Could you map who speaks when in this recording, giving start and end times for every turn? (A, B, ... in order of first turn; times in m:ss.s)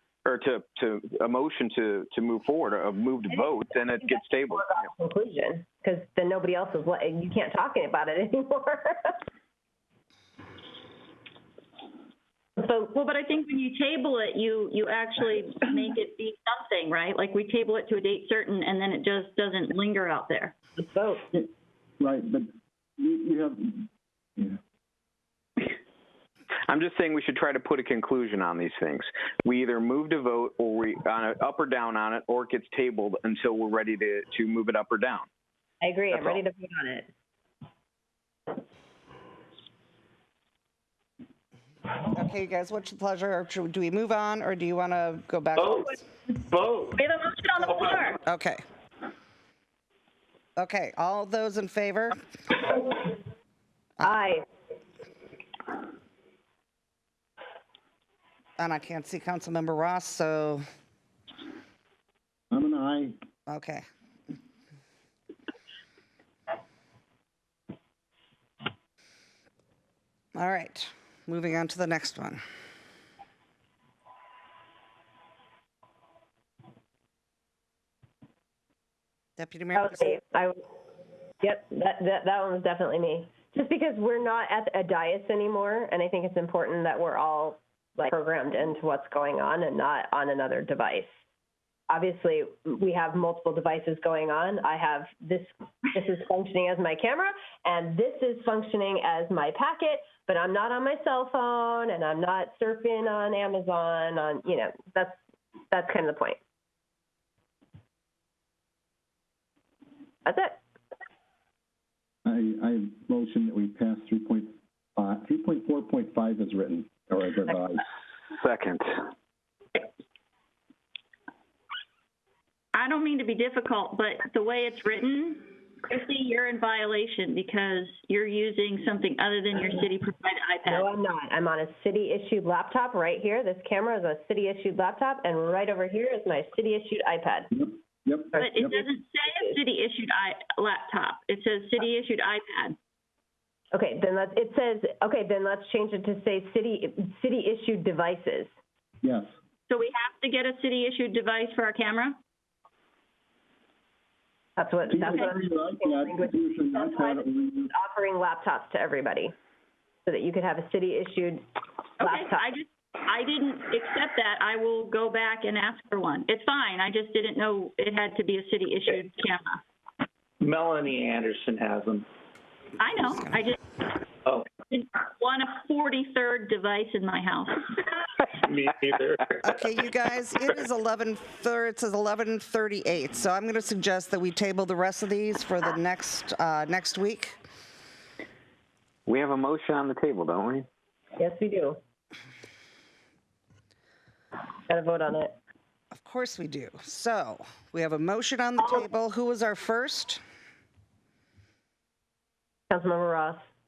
0:00.2-0:04.7 A
0:03.3-0:09.2 B
0:12.6-0:12.9 B
0:12.9-0:20.5 C
0:20.8-0:21.2 B
0:22.0-0:22.5 D
0:23.0-0:24.6 D
0:26.7-0:35.3 A
0:35.8-0:37.1 B
0:36.1-0:36.4 A
0:42.1-0:46.0 E
0:45.6-0:47.0 F
0:47.0-0:48.2 C
0:47.8-0:48.6 E
0:50.6-0:52.2 E
0:54.0-0:54.4 B
0:58.6-1:00.6 E
1:02.5-1:03.2 D
1:03.5-1:03.8 E
1:10.3-1:12.4 E
1:19.4-1:20.2 E
1:19.8-1:20.6 B
1:21.4-1:31.2 B
1:31.9-1:45.2 B
1:45.7-1:46.4 B
1:50.2-1:50.6 B
1:52.2-1:57.8 D
1:58.3-1:58.8 A
2:02.7-2:10.9 C
2:10.6-2:17.5 B
2:18.0-2:18.8 D
2:18.3-2:18.6 B
2:18.4-2:22.8 C
2:23.7-2:28.5 B
2:29.0-2:29.3 D
2:29.7-2:32.2 C
2:34.6-2:39.3 B
2:34.9-2:37.7 D
2:35.0-2:35.3 C
2:40.0-2:41.4 B
2:42.0-2:42.4 B
2:42.0-2:49.6 C
2:50.4-2:52.1 F
2:52.8-2:53.6 C
2:54.7-2:57.8 C
2:58.4-2:59.4 F
2:59.4-3:07.4 E
3:09.1-3:10.7 A
3:11.2-3:11.8 B
3:14.7-3:15.3 B
3:15.9-3:20.2 E
3:22.7-3:23.4 B